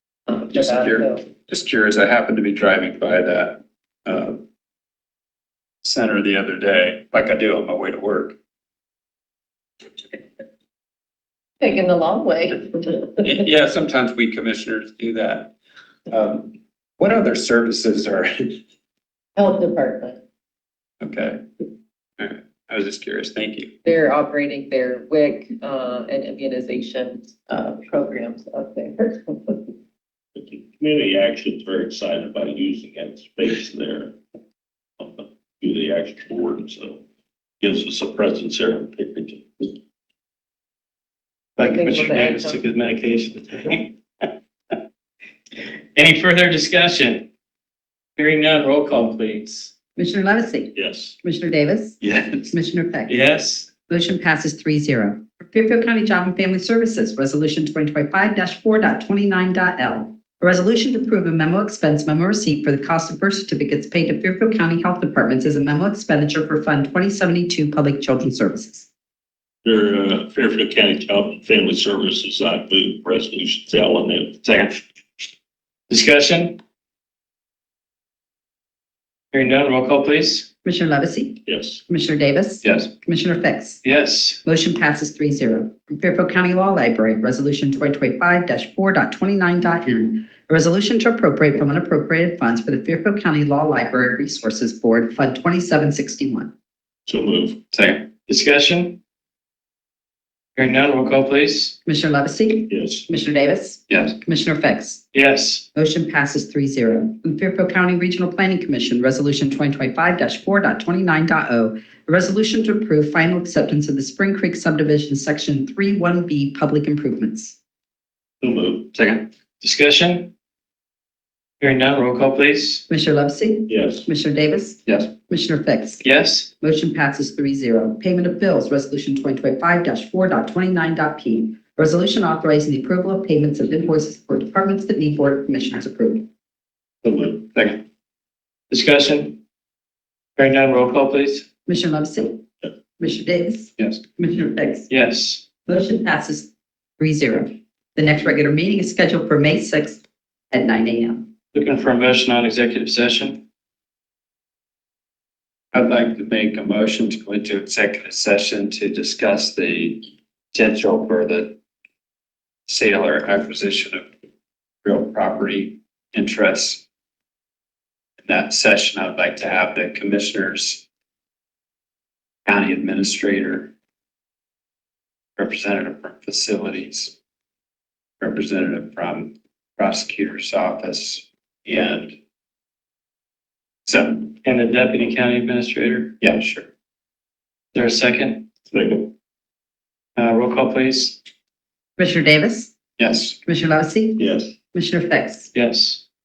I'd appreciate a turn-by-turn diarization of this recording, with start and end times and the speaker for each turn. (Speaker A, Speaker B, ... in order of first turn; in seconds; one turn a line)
Speaker A: 0.3-1.2
Speaker B: 0.5-4.4
Speaker B: 5.8-8.3
Speaker A: 11.6-13.2
Speaker B: 13.2-15.5
Speaker B: 16.1-18.5
Speaker A: 19.4-20.2
Speaker B: 21.0-21.4
Speaker B: 22.2-23.7
Speaker A: 23.8-29.7
Speaker C: 30.4-34.1
Speaker C: 35.0-37.0
Speaker C: 37.6-39.7
Speaker D: 41.6-43.9
Speaker A: 41.6-42.6
Speaker D: 45.9-47.2
Speaker D: 48.2-49.7
Speaker E: 50.0-53.1
Speaker C: 50.7-51.1
Speaker B: 52.0-52.5
Speaker D: 53.1-53.7
Speaker E: 53.9-68.9
Speaker C: 69.6-74.8
Speaker D: 75.9-76.5
Speaker D: 79.3-80.4
Speaker E: 80.6-83.8
Speaker C: 81.5-81.8
Speaker D: 83.8-84.4
Speaker E: 84.4-96.5
Speaker C: 97.0-97.6
Speaker B: 97.7-98.0
Speaker D: 98.3-98.9
Speaker D: 100.5-101.7
Speaker E: 101.8-105.0
Speaker C: 102.7-103.0
Speaker D: 105.1-105.6
Speaker E: 105.7-117.5
Speaker C: 118.4-118.9
Speaker B: 118.9-119.2
Speaker D: 119.6-120.3
Speaker D: 121.6-122.8
Speaker E: 122.9-126.0
Speaker C: 123.7-124.1
Speaker D: 126.0-126.5
Speaker E: 126.6-136.2
Speaker C: 137.0-137.4
Speaker D: 138.7-139.3
Speaker D: 140.4-141.4
Speaker E: 141.7-142.4
Speaker E: 143.0-144.9
Speaker D: 144.9-145.4
Speaker E: 145.7-146.5
Speaker E: 147.0-150.0
Speaker E: 150.5-151.2
Speaker D: 151.5-153.4
Speaker B: 155.7-161.5
Speaker B: 162.7-164.1
Speaker B: 164.8-166.8
Speaker B: 168.2-170.8
Speaker B: 172.4-173.7
Speaker B: 175.4-177.1
Speaker B: 178.2-182.2
Speaker B: 183.8-184.3
Speaker D: 184.4-186.1
Speaker B: 186.2-186.7
Speaker D: 187.7-188.4
Speaker C: 188.7-189.0
Speaker D: 190.2-191.2
Speaker E: 192.0-192.7
Speaker B: 193.0-193.4
Speaker E: 193.4-195.5
Speaker C: 194.2-194.5
Speaker D: 195.5-196.0